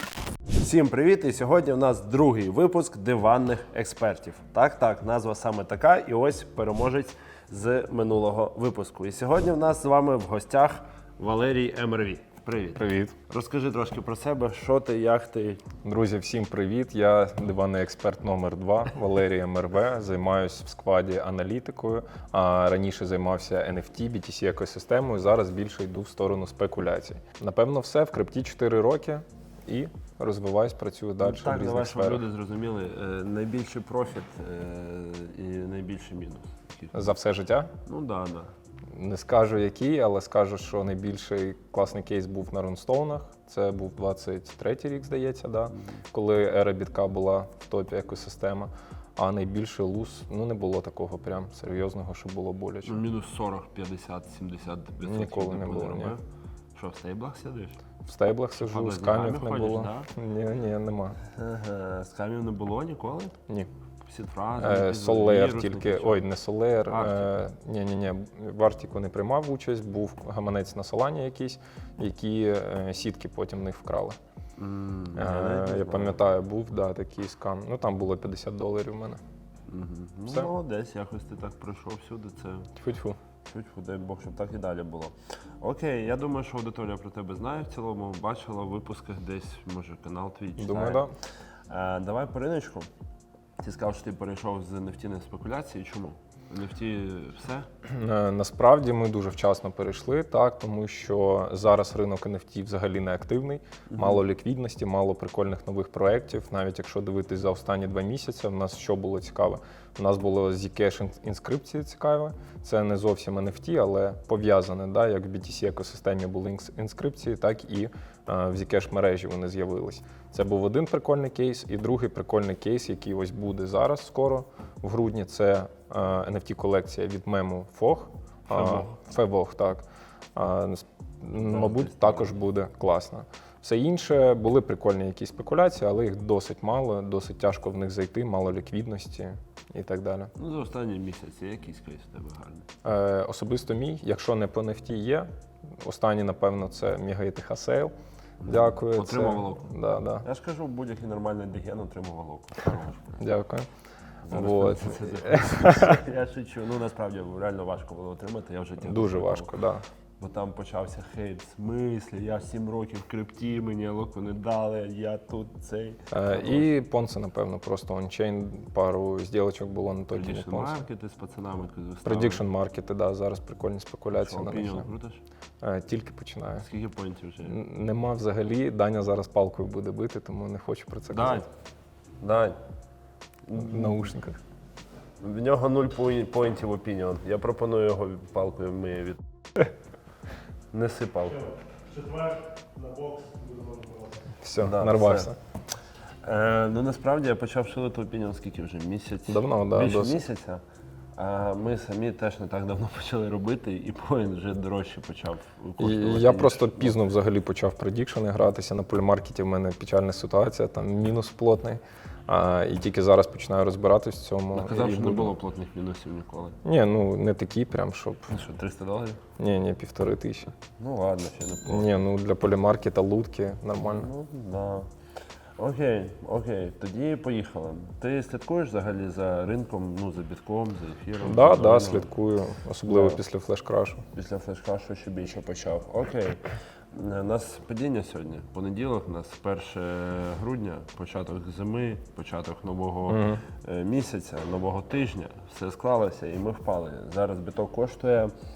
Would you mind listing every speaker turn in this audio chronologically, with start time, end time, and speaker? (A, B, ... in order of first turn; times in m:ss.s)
0:00.6-0:15.6 A
0:12.8-0:13.1 B
0:15.8-0:32.2 B
0:31.2-0:36.9 A
0:36.9-0:37.7 B
0:37.8-0:38.5 A
0:38.9-0:53.0 B
0:52.8-0:56.2 A
0:55.0-0:56.1 B
0:56.7-0:57.8 A
0:58.0-1:01.2 B
0:58.6-1:00.1 A
1:01.3-1:03.4 A
1:04.0-1:06.2 A
1:04.6-1:14.2 B
1:06.9-1:07.3 A
1:14.6-1:16.2 A
1:15.2-1:19.2 B
1:19.7-1:22.7 A
1:22.7-1:23.2 B
1:23.4-1:31.1 A
1:30.6-1:31.1 B
1:31.7-1:32.9 A
1:33.6-1:37.7 A
1:37.8-2:20.3 B
1:43.9-1:44.2 A
2:08.5-2:09.0 A
2:11.4-2:12.3 A
2:20.3-2:22.7 A
2:22.8-2:27.9 B
2:28.4-2:29.7 A
2:28.4-2:30.2 B
2:30.2-2:33.2 A
2:33.2-2:33.7 B
2:34.2-2:39.5 A
2:34.3-2:36.0 B
2:38.8-2:39.8 B
2:40.2-2:46.6 A
2:46.1-2:50.8 B
2:50.1-2:52.4 A
2:52.0-2:54.9 B
2:54.1-2:55.2 A
2:55.6-2:56.6 B
2:56.6-2:57.6 A
2:57.4-3:01.4 B
3:01.1-3:01.4 A
3:02.2-3:02.6 A
3:03.5-3:04.0 A
3:03.5-3:04.4 B
3:05.2-3:09.2 A
3:10.7-3:11.4 A
3:11.3-3:14.3 C
3:14.4-3:15.4 B
3:14.6-3:15.3 A
3:16.2-3:20.6 A
3:19.3-3:20.2 B
3:21.2-3:27.0 A
3:25.8-3:35.3 B
3:34.5-3:36.6 A
3:36.6-3:38.3 B
3:38.3-3:39.2 A
3:39.4-3:40.5 B
3:40.8-3:41.9 A
3:41.6-3:44.1 B
3:43.8-3:44.9 A
3:45.6-3:52.1 A
3:51.2-3:54.0 B
3:52.9-3:53.2 A
3:54.1-4:08.3 A
4:03.1-4:03.4 B